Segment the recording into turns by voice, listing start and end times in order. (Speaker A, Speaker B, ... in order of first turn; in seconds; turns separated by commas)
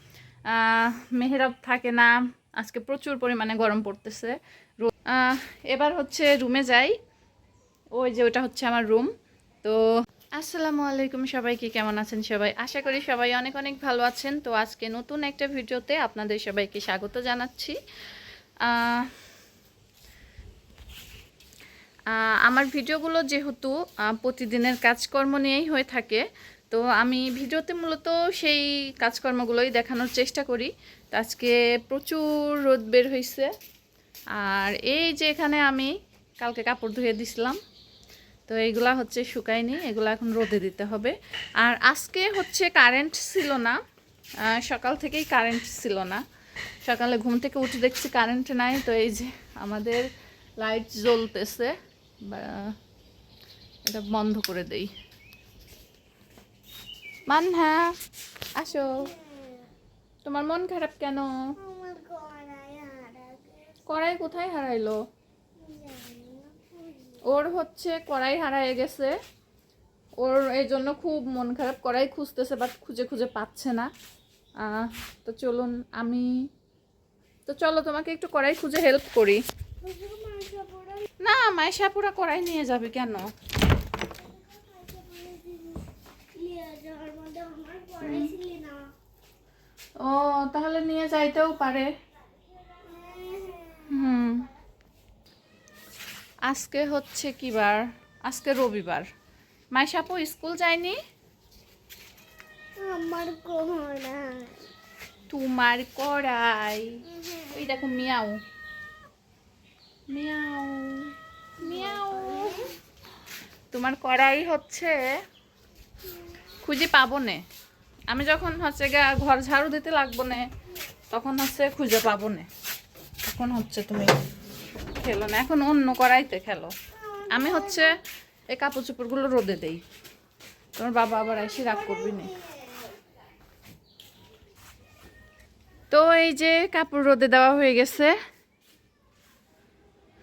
Speaker A: 0.5-7.0, Speaker A: 7.9-9.1, Speaker A: 10.3-17.8, Speaker A: 18.6-19.1, Speaker A: 22.1-33.5, Speaker A: 34.3-37.6, Speaker A: 38.5-43.8, Speaker A: 44.5-46.2, Speaker A: 46.8-50.0, Speaker A: 50.6-52.7, Speaker A: 53.9-54.9, Speaker A: 57.3-58.0, Speaker A: 58.5-59.1, Speaker B: 58.8-59.7, Speaker A: 60.2-61.3, Speaker B: 61.6-63.8, Speaker A: 63.9-65.0, Speaker B: 65.6-67.3, Speaker A: 67.2-69.1, Speaker A: 70.2-73.9, Speaker A: 74.6-76.3, Speaker A: 77.5-79.4, Speaker B: 79.8-81.1, Speaker A: 81.2-83.3, Speaker B: 84.1-88.9, Speaker A: 88.0-88.3, Speaker A: 90.0-91.9, Speaker B: 92.7-94.0, Speaker A: 93.9-94.5, Speaker A: 96.5-99.1, Speaker A: 99.7-101.0, Speaker B: 102.8-104.7, Speaker A: 105.3-108.4, Speaker B: 107.1-107.5, Speaker A: 110.1-112.7, Speaker B: 111.6-112.7, Speaker A: 113.7-115.0, Speaker A: 116.6-117.4, Speaker A: 118.1-120.5, Speaker A: 121.1-122.5, Speaker A: 123.2-124.1, Speaker A: 125.0-126.7, Speaker B: 126.9-127.9, Speaker A: 127.3-128.0, Speaker A: 128.5-129.8, Speaker A: 130.8-132.3, Speaker B: 131.1-133.0, Speaker A: 135.9-138.1